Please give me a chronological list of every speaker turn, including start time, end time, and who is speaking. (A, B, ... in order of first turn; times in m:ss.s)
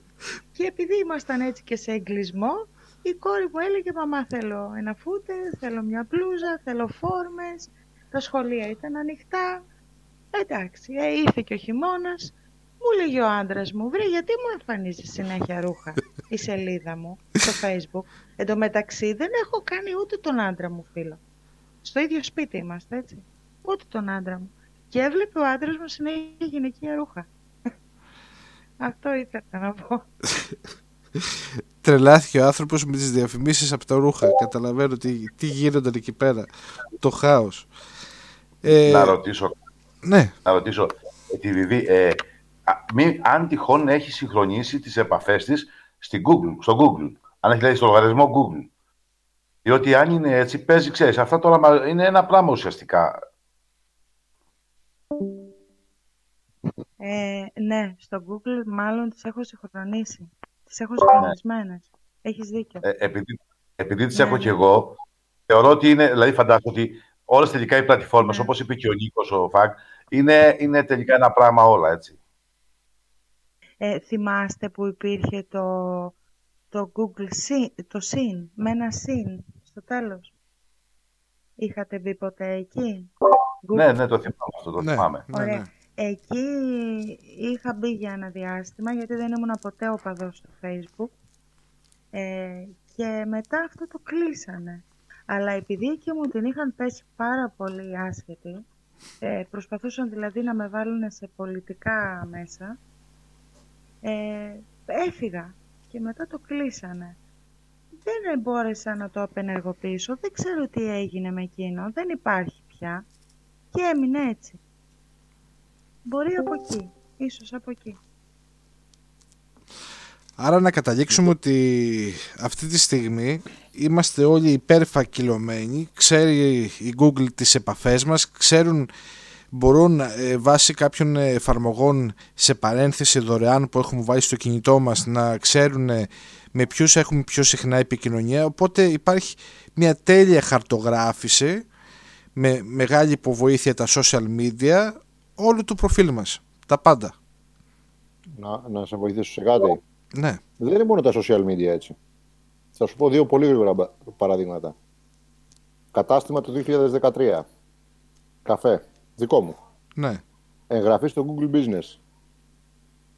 0:00.5-0:09.6 A
0:10.3-0:21.2 A
0:21.8-0:27.3 A
0:28.8-0:30.0 A
0:31.2-0:37.7 B
0:38.6-0:39.2 B
0:38.7-0:39.6 C
0:40.0-0:40.3 B
0:40.4-0:48.7 C
0:49.6-0:53.2 C
0:57.0-1:02.8 A
1:02.8-1:05.0 C
1:04.1-1:04.6 A
1:05.5-1:12.2 C
1:08.2-1:08.5 A
1:13.8-1:16.1 A
1:16.7-1:20.3 A
1:21.6-1:23.1 A
1:23.6-1:23.9 A
1:23.7-1:25.2 C
1:24.8-1:25.7 B
1:25.3-1:31.1 A
1:32.1-1:38.6 A
1:39.2-1:42.8 A
1:44.0-1:47.2 A
1:48.0-1:53.0 A
1:53.7-1:54.6 A
1:56.0-1:58.0 A
2:00.4-2:08.9 B
2:09.5-2:21.6 B
2:22.3-2:27.1 B
2:28.4-2:29.8 D
2:30.1-2:30.4 B
2:30.6-2:32.0 D
2:32.7-2:34.7 D
2:35.9-2:37.4 D
2:38.4-2:39.6 D
2:40.0-2:40.2 B
2:40.7-2:42.0 D